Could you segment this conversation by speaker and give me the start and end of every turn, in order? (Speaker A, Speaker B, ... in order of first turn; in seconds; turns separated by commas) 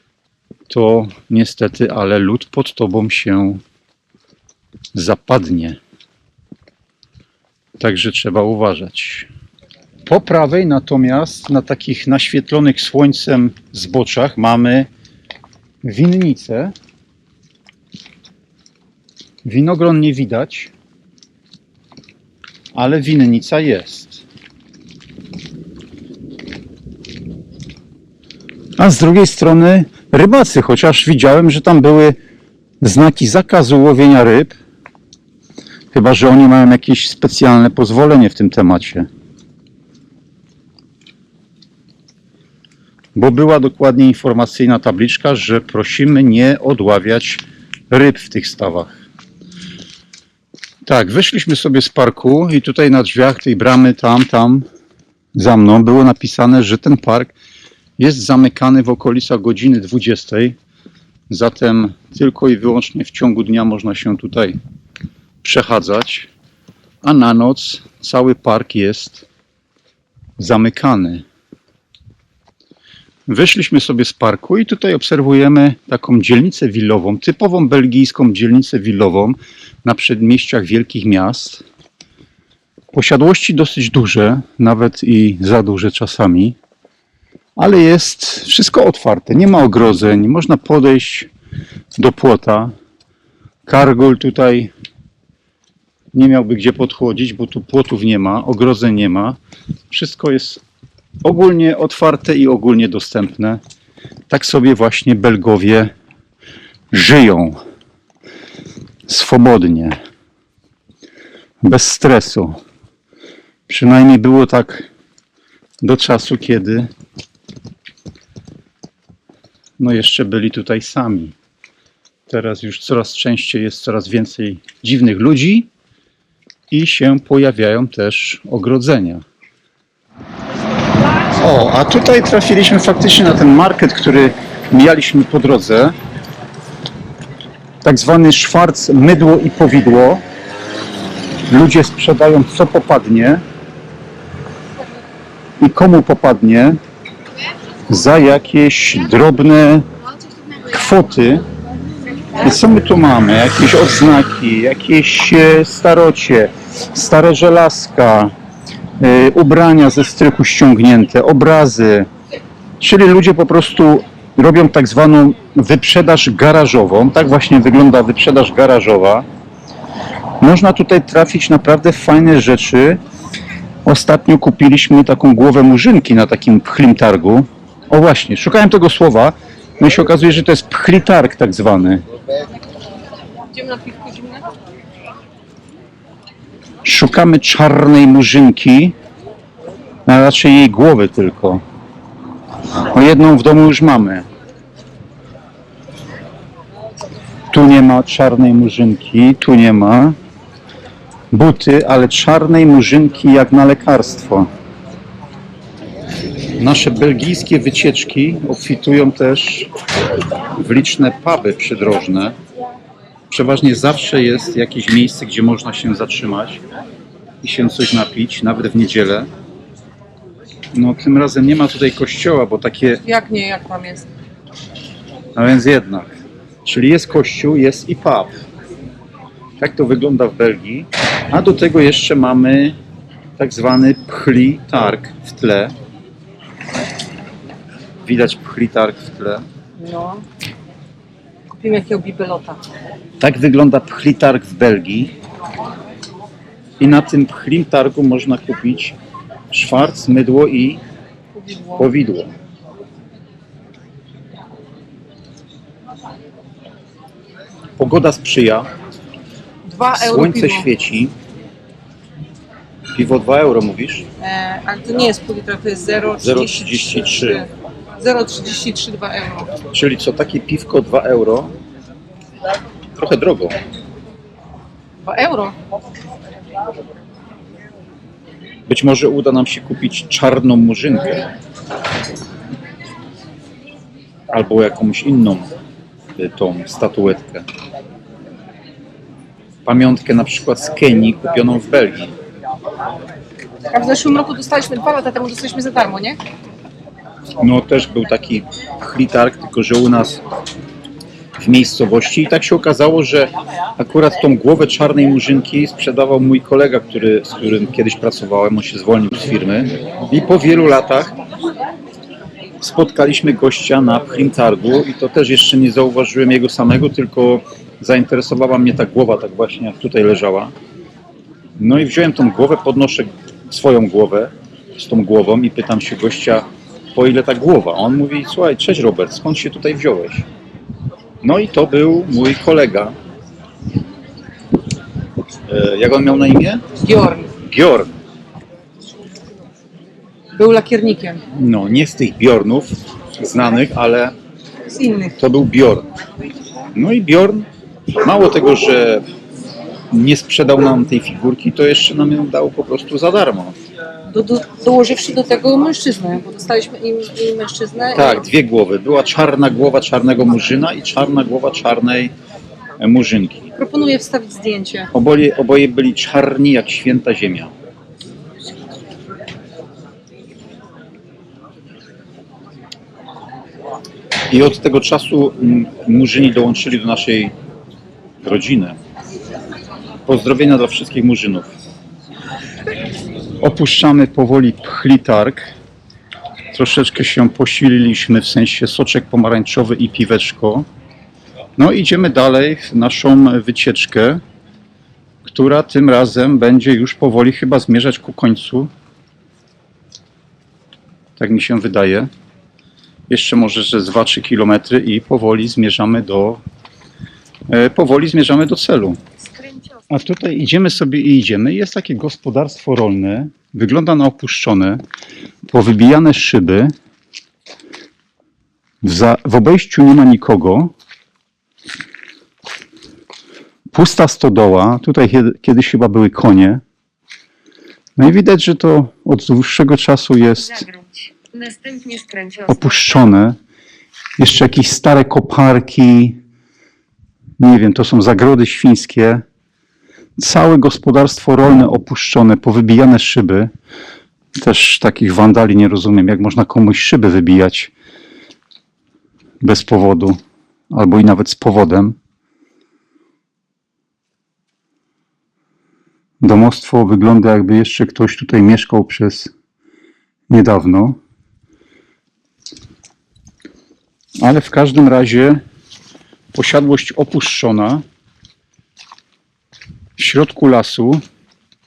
Speaker A: 0.7-3.6, Speaker A: 4.9-5.8, Speaker A: 7.8-9.3, Speaker A: 10.1-14.9, Speaker A: 15.8-16.7, Speaker A: 19.4-20.7, Speaker A: 22.7-24.2, Speaker A: 28.8-32.1, Speaker A: 32.8-34.5, Speaker A: 35.9-39.1, Speaker A: 43.1-49.0, Speaker A: 50.8-54.6, Speaker A: 55.3-57.3, Speaker A: 58.0-60.5, Speaker A: 61.3-64.6, Speaker A: 65.4-66.3, Speaker A: 67.0-69.3, Speaker A: 70.4-71.2, Speaker A: 73.3-81.6, Speaker A: 82.9-86.6, Speaker A: 87.6-91.3, Speaker A: 92.0-92.7, Speaker A: 93.7-94.7, Speaker A: 96.1-99.4, Speaker A: 99.9-100.6, Speaker A: 101.2-103.6, Speaker A: 104.3-105.9, Speaker A: 106.9-107.6, Speaker A: 109.1-110.0, Speaker A: 111.6-112.6, Speaker A: 113.7-114.9, Speaker A: 115.8-116.9, Speaker A: 119.8-121.3, Speaker A: 122.3-125.7, Speaker A: 126.7-129.2, Speaker A: 131.3-135.9, Speaker A: 137.8-140.2, Speaker A: 141.5-143.4, Speaker A: 145.6-146.8, Speaker A: 147.9-149.9, Speaker A: 150.6-151.4, Speaker A: 152.4-158.3, Speaker A: 159.0-162.1, Speaker A: 162.8-169.2, Speaker A: 170.4-173.0, Speaker A: 173.8-182.0, Speaker B: 183.5-184.4, Speaker A: 186.8-188.9, Speaker A: 190.1-191.6, Speaker A: 192.9-194.2, Speaker A: 197.5-200.2, Speaker A: 201.3-204.5, Speaker A: 206.6-209.7, Speaker A: 210.6-212.4, Speaker A: 213.3-216.6, Speaker A: 217.4-219.3, Speaker A: 220.7-223.0, Speaker B: 223.0-224.1, Speaker A: 225.3-228.3, Speaker A: 229.6-232.8, Speaker A: 233.4-235.7, Speaker A: 238.0-239.4, Speaker B: 239.8-240.2, Speaker B: 241.5-242.6, Speaker A: 243.2-245.1, Speaker A: 246.8-248.9, Speaker A: 249.5-250.8, Speaker B: 251.3-251.9, Speaker A: 251.8-252.3, Speaker A: 257.8-258.7, Speaker B: 259.6-260.7, Speaker A: 259.9-261.1, Speaker A: 262.9-264.1, Speaker B: 264.2-269.5, Speaker A: 266.1-267.4, Speaker A: 269.7-271.5, Speaker A: 272.9-273.6, Speaker B: 275.0-275.6, Speaker A: 278.7-281.3, Speaker A: 284.3-285.5, Speaker A: 286.2-287.4, Speaker A: 289.6-292.1, Speaker B: 293.7-296.2, Speaker A: 297.4-300.2, Speaker A: 301.4-311.1, Speaker A: 312.6-320.5, Speaker A: 321.6-330.2, Speaker A: 331.2-332.9, Speaker A: 335.5-336.6, Speaker B: 336.8-337.3, Speaker A: 337.4-337.9, Speaker B: 340.3-341.2, Speaker A: 341.3-344.1, Speaker B: 344.6-345.1, Speaker A: 345.2-345.9, Speaker A: 346.7-349.0, Speaker A: 349.9-353.6, Speaker B: 354.1-358.3, Speaker A: 357.9-362.1, Speaker A: 362.8-363.5, Speaker B: 363.6-364.9, Speaker A: 364.9-367.5, Speaker A: 374.3-377.3, Speaker A: 378.2-378.8, Speaker A: 380.1-381.5, Speaker A: 383.4-385.5, Speaker A: 386.5-390.7, Speaker A: 391.6-394.2, Speaker A: 395.2-398.7, Speaker A: 401.2-402.1, Speaker A: 403.1-406.4, Speaker A: 407.5-409.0, Speaker B: 409.4-409.8, Speaker A: 409.9-414.8, Speaker A: 415.5-416.7, Speaker A: 418.8-420.7, Speaker A: 423.7-426.6, Speaker A: 428.0-430.7, Speaker B: 430.7-432.4, Speaker A: 432.5-433.4, Speaker A: 434.2-436.2, Speaker A: 437.4-439.2, Speaker A: 440.2-443.5, Speaker A: 444.4-447.7, Speaker A: 449.4-450.2, Speaker A: 450.7-452.0, Speaker A: 456.2-459.3, Speaker A: 460.3-461.0, Speaker A: 464.2-465.4, Speaker A: 466.3-467.8, Speaker A: 470.0-471.0